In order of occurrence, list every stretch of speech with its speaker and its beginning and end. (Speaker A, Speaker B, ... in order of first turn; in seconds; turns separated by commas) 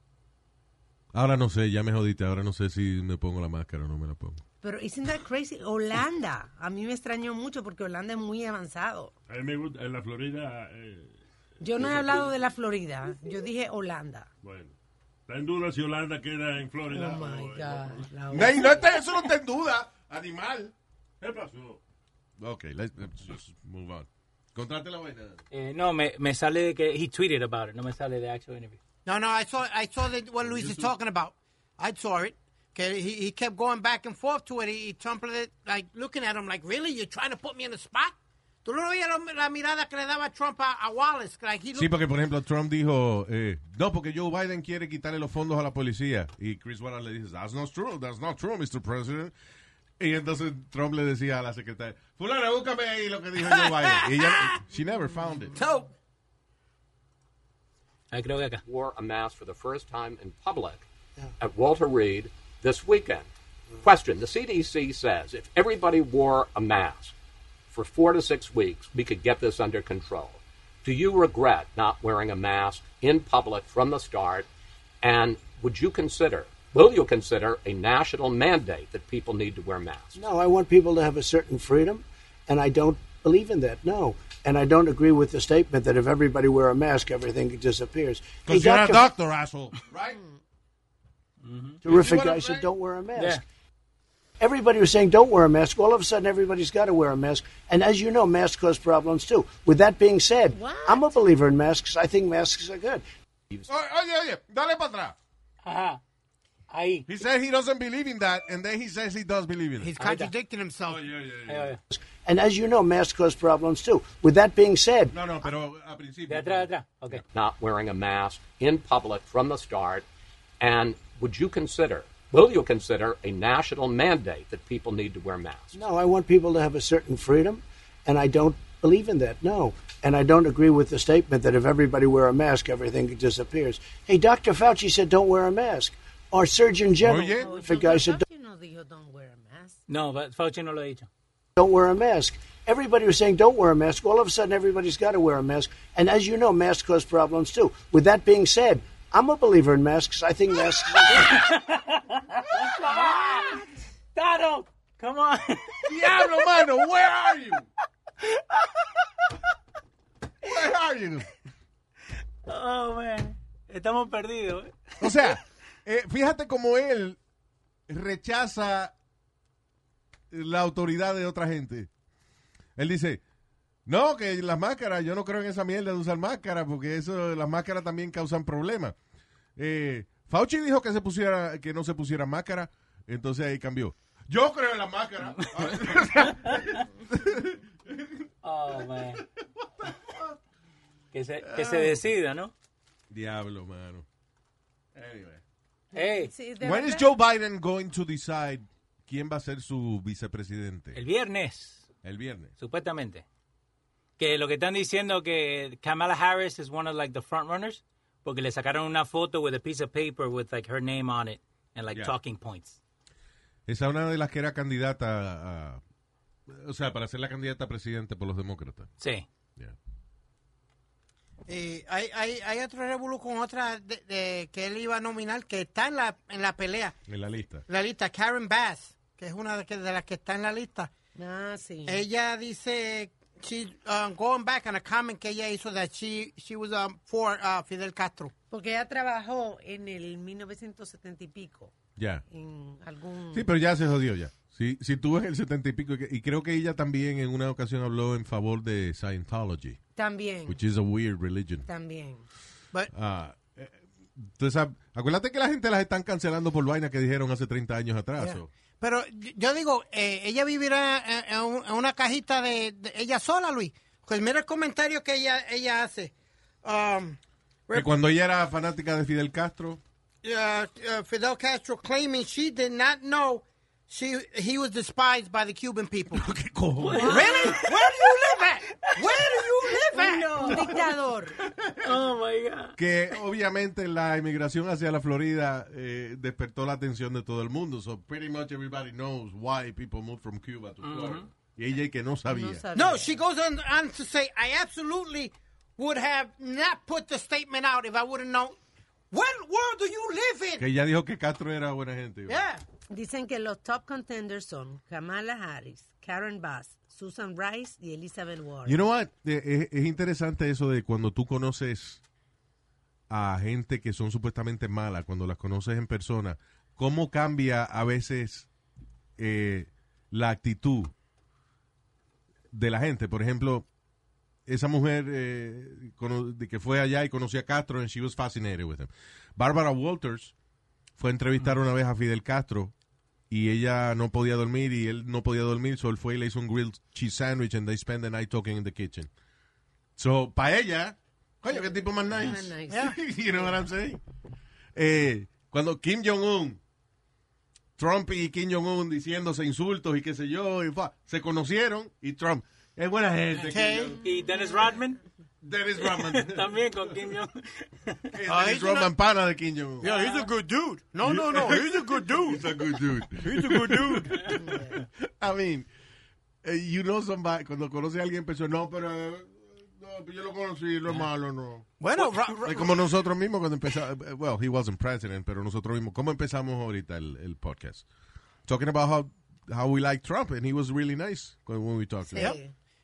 Speaker A: 1.1-4.4, Speaker B: 4.6-9.1, Speaker C: 9.3-11.2, Speaker B: 11.6-14.3, Speaker C: 11.7-12.3, Speaker C: 14.4-14.7, Speaker C: 15.3-18.1, Speaker B: 16.9-19.1, Speaker A: 18.3-20.7, Speaker C: 21.2-21.8, Speaker A: 22.4-25.4, Speaker D: 25.5-28.8, Speaker E: 29.1-41.9, Speaker A: 30.4-30.9, Speaker A: 41.7-49.3, Speaker A: 50.0-55.6, Speaker E: 53.5-54.3, Speaker E: 55.5-55.9, Speaker D: 58.1-58.6, Speaker F: 58.6-60.9, Speaker F: 61.4-63.3, Speaker F: 63.8-67.1, Speaker F: 67.7-74.5, Speaker F: 75.0-80.2, Speaker G: 80.2-89.1, Speaker A: 88.5-90.2, Speaker B: 90.1-90.4, Speaker D: 91.4-91.8, Speaker G: 91.8-93.4, Speaker A: 91.8-92.7, Speaker D: 93.2-93.4, Speaker G: 94.4-103.0, Speaker B: 100.5-101.1, Speaker A: 103.7-105.2, Speaker D: 105.6-106.0, Speaker D: 106.7-107.1, Speaker A: 107.1-109.9, Speaker E: 109.8-111.0, Speaker D: 110.0-110.3, Speaker A: 110.8-111.7, Speaker D: 111.5-111.8, Speaker G: 111.9-115.1, Speaker A: 115.1-117.2, Speaker D: 116.3-117.2, Speaker F: 117.3-120.0, Speaker F: 120.6-125.8, Speaker G: 125.7-138.2, Speaker A: 137.0-137.5, Speaker B: 137.4-139.8, Speaker D: 139.9-141.1, Speaker G: 141.6-151.4, Speaker D: 151.1-153.6, Speaker D: 154.1-155.9, Speaker A: 155.8-157.7, Speaker D: 158.2-158.7, Speaker A: 160.4-161.3, Speaker D: 162.5-165.3, Speaker A: 165.0-167.2, Speaker A: 167.9-168.9, Speaker A: 170.3-171.9, Speaker A: 172.8-173.2, Speaker A: 173.9-178.9, Speaker A: 179.6-190.4, Speaker D: 185.4-185.7, Speaker D: 188.4-189.2, Speaker D: 191.1-192.5, Speaker A: 191.4-192.0, Speaker A: 193.1-194.1, Speaker A: 194.9-195.4, Speaker D: 195.9-196.3, Speaker B: 195.9-197.1, Speaker A: 196.6-201.0, Speaker D: 200.9-201.9, Speaker A: 202.0-202.5, Speaker D: 202.6-203.2, Speaker D: 204.2-212.8, Speaker A: 213.7-215.8, Speaker A: 216.5-218.9, Speaker D: 219.0-219.3, Speaker E: 221.5-227.0, Speaker A: 227.1-227.6, Speaker E: 227.7-230.9, Speaker B: 231.1-232.1, Speaker E: 231.9-238.3, Speaker B: 238.5-241.7, Speaker A: 241.9-242.2, Speaker B: 242.3-243.5, Speaker A: 243.3-249.8, Speaker B: 249.9-250.6, Speaker A: 250.5-251.7, Speaker B: 251.7-252.2, Speaker A: 252.9-258.5, Speaker E: 258.2-267.9, Speaker A: 267.7-269.8, Speaker E: 270.2-276.2, Speaker A: 276.1-277.2, Speaker D: 276.8-278.0, Speaker B: 276.9-277.6, Speaker E: 277.0-280.6, Speaker D: 278.8-280.7, Speaker B: 279.9-281.4, Speaker A: 281.4-282.0, Speaker D: 281.8-282.8, Speaker A: 282.8-292.6, Speaker D: 290.8-291.3, Speaker B: 292.3-293.1, Speaker E: 292.7-298.6, Speaker E: 299.1-300.6, Speaker A: 300.6-302.4, Speaker E: 302.3-302.6, Speaker B: 302.9-308.8, Speaker A: 308.6-312.0, Speaker A: 313.1-318.5, Speaker A: 319.2-320.9, Speaker A: 322.5-323.6, Speaker A: 324.5-330.3, Speaker A: 331.0-332.7, Speaker A: 333.3-339.1, Speaker A: 340.0-344.0, Speaker B: 341.5-342.9, Speaker E: 342.7-342.9, Speaker A: 344.7-346.6, Speaker A: 347.8-354.0, Speaker E: 353.5-354.0, Speaker D: 354.0-355.0, Speaker A: 355.4-356.8, Speaker D: 355.8-358.2, Speaker A: 358.1-359.9, Speaker E: 358.3-358.9, Speaker E: 359.8-362.5, Speaker D: 359.9-360.3, Speaker A: 361.0-365.7, Speaker E: 363.2-364.1, Speaker B: 364.4-364.7, Speaker A: 366.4-377.9, Speaker E: 371.8-372.8, Speaker A: 378.4-382.4, Speaker B: 382.1-382.5, Speaker E: 382.1-382.4